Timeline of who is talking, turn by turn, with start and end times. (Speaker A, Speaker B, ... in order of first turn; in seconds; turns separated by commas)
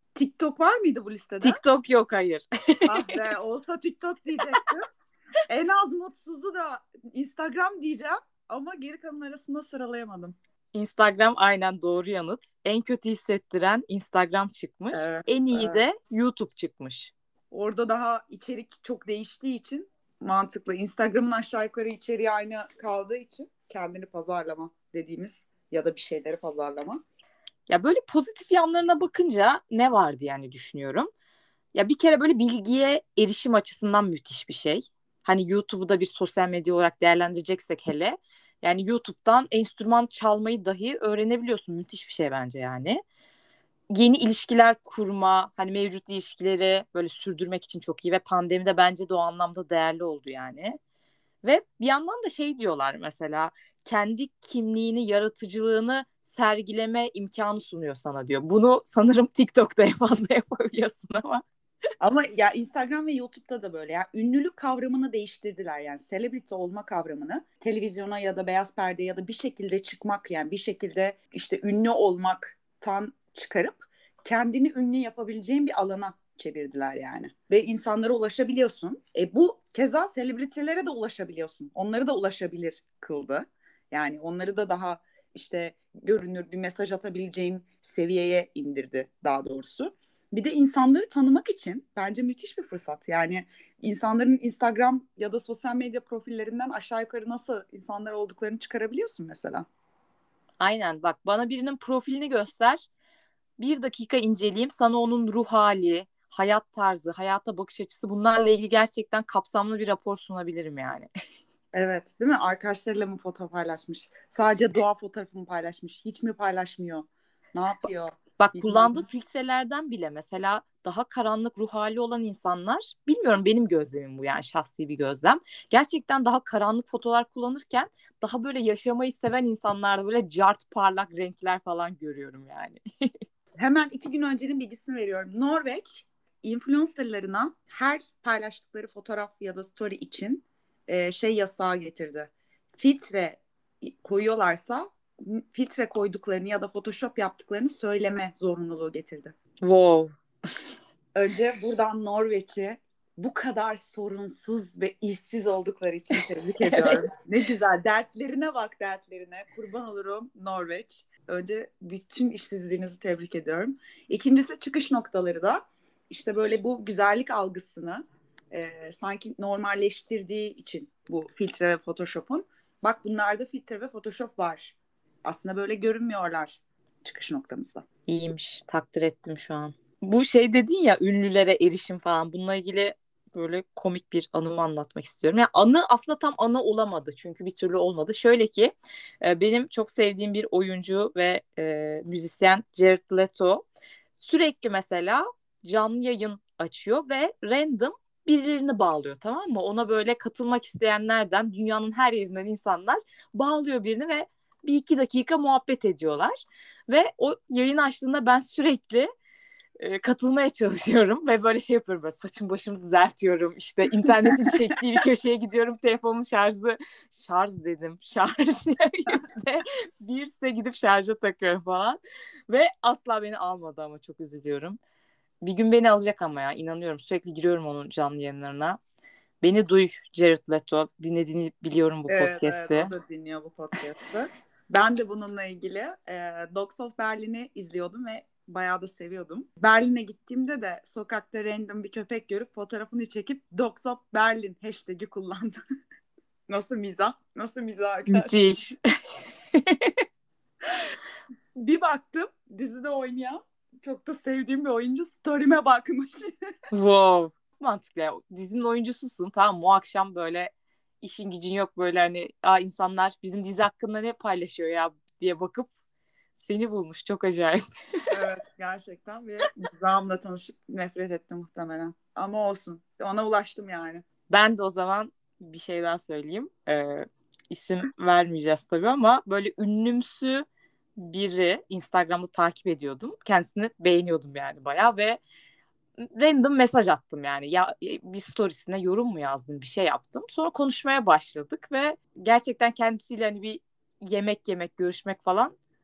Speaker A: 0.1-1.6, Speaker B: 1.4-3.2, Speaker A: 2.9-4.9, Speaker A: 5.5-10.3, Speaker B: 10.7-17.1, Speaker A: 14.9-15.8, Speaker A: 17.5-27.0, Speaker B: 27.7-31.1, Speaker B: 31.7-43.0, Speaker B: 43.9-50.8, Speaker B: 51.4-61.4, Speaker A: 62.0-99.7, Speaker B: 100.6-102.8, Speaker B: 103.6-111.1, Speaker A: 111.7-119.0, Speaker B: 118.4-132.8, Speaker A: 133.6-149.3, Speaker B: 149.6-150.1, Speaker A: 151.1-177.8, Speaker B: 156.6-157.0, Speaker B: 178.1-206.3, Speaker B: 206.9-209.1, Speaker B: 209.8-222.0, Speaker A: 214.0-214.6, Speaker B: 222.5-224.8, Speaker B: 225.4-228.8, Speaker B: 229.4-232.9, Speaker A: 232.1-245.6, Speaker A: 246.5-248.3, Speaker B: 248.1-248.8, Speaker B: 249.5-250.0, Speaker A: 251.5-256.3, Speaker B: 256.7-260.5, Speaker B: 261.0-265.7, Speaker B: 266.4-267.6, Speaker A: 268.1-274.0, Speaker B: 274.3-280.4, Speaker B: 281.0-285.2, Speaker B: 286.0-295.5